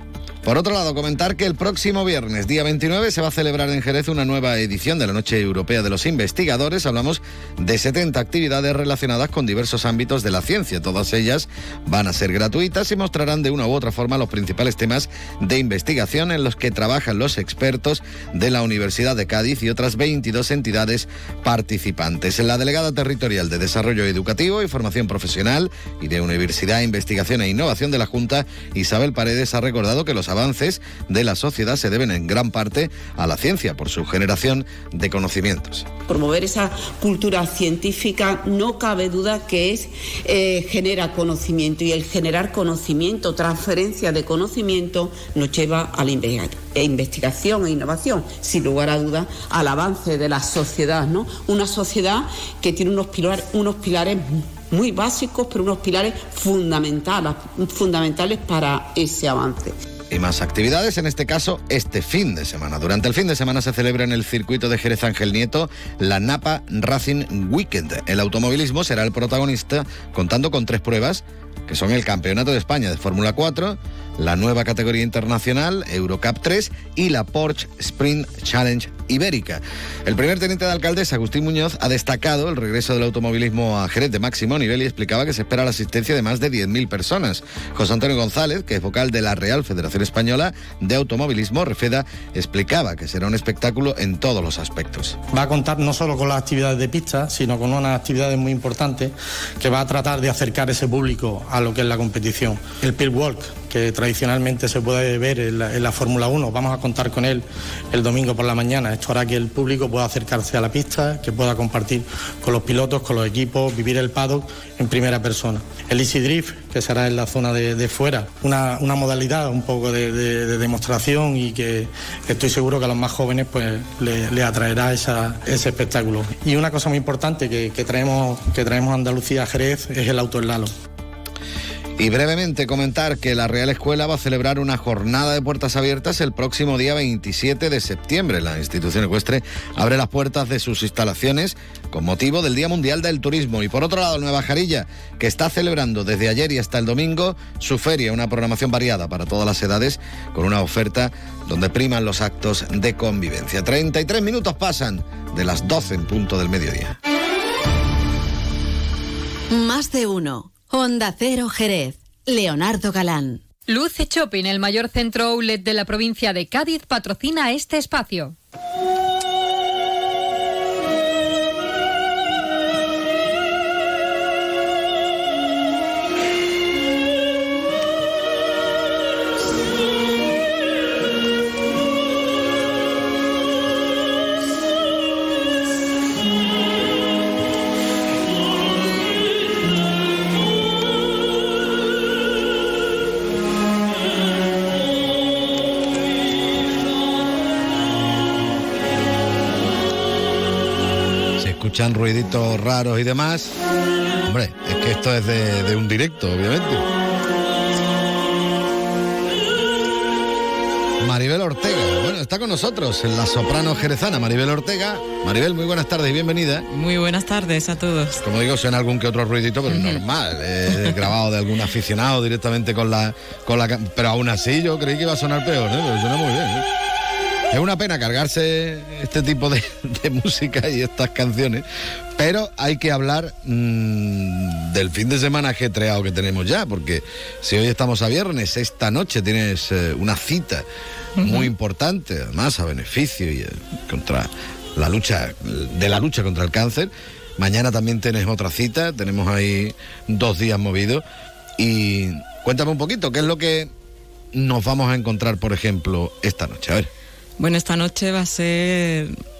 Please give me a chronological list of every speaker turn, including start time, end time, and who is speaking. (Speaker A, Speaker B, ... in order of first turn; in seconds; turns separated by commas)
Speaker A: 0.4-35.9, Speaker B: 36.1-59.7, Speaker A: 60.1-95.2, Speaker C: 95.3-130.7, Speaker A: 132.0-156.9, Speaker D: 159.5-163.4, Speaker E: 163.7-168.3, Speaker A: 201.4-203.5, Speaker A: 204.2-206.8, Speaker A: 211.0-216.6, Speaker F: 216.7-218.2, Speaker A: 218.2-226.6, Speaker F: 219.7-220.0, Speaker A: 227.5-231.6, Speaker A: 232.2-240.6, Speaker F: 241.2-241.5, Speaker A: 241.2-251.0, Speaker A: 251.6-253.7, Speaker A: 254.3-256.9, Speaker F: 257.4-259.1